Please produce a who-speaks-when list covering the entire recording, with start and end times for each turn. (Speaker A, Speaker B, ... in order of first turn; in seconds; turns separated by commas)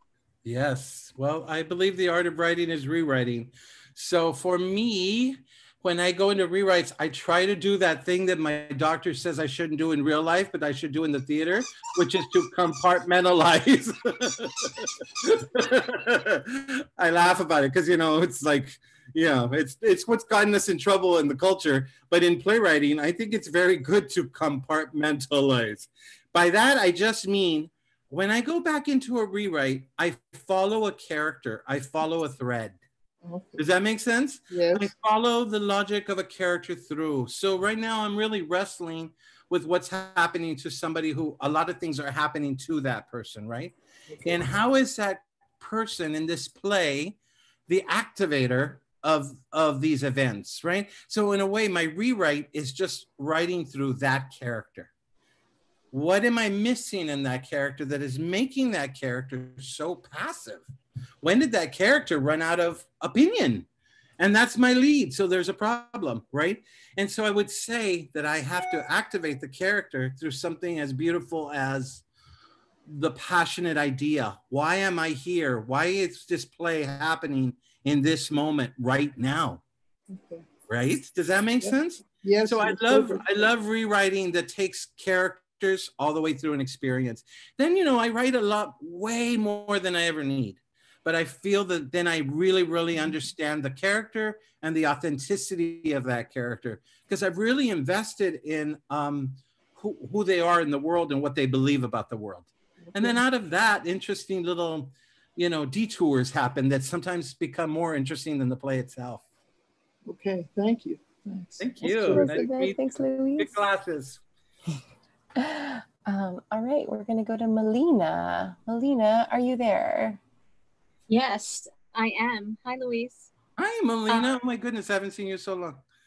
Speaker A: 0.4-32.8, Speaker B: 33.2-33.6, Speaker A: 33.5-43.7, Speaker B: 34.5-34.9, Speaker A: 44.2-47.2, Speaker A: 47.7-54.9, Speaker A: 55.9-60.7, Speaker A: 61.2-63.7, Speaker A: 64.2-72.0, Speaker A: 72.9-79.6, Speaker B: 80.1-80.4, Speaker A: 80.7-109.2, Speaker B: 81.6-83.2, Speaker B: 102.9-103.2, Speaker B: 110.0-112.5, Speaker A: 111.6-114.2, Speaker C: 111.8-113.6, Speaker C: 115.4-120.2, Speaker D: 121.1-123.3, Speaker A: 123.6-125.8, Speaker D: 124.1-124.3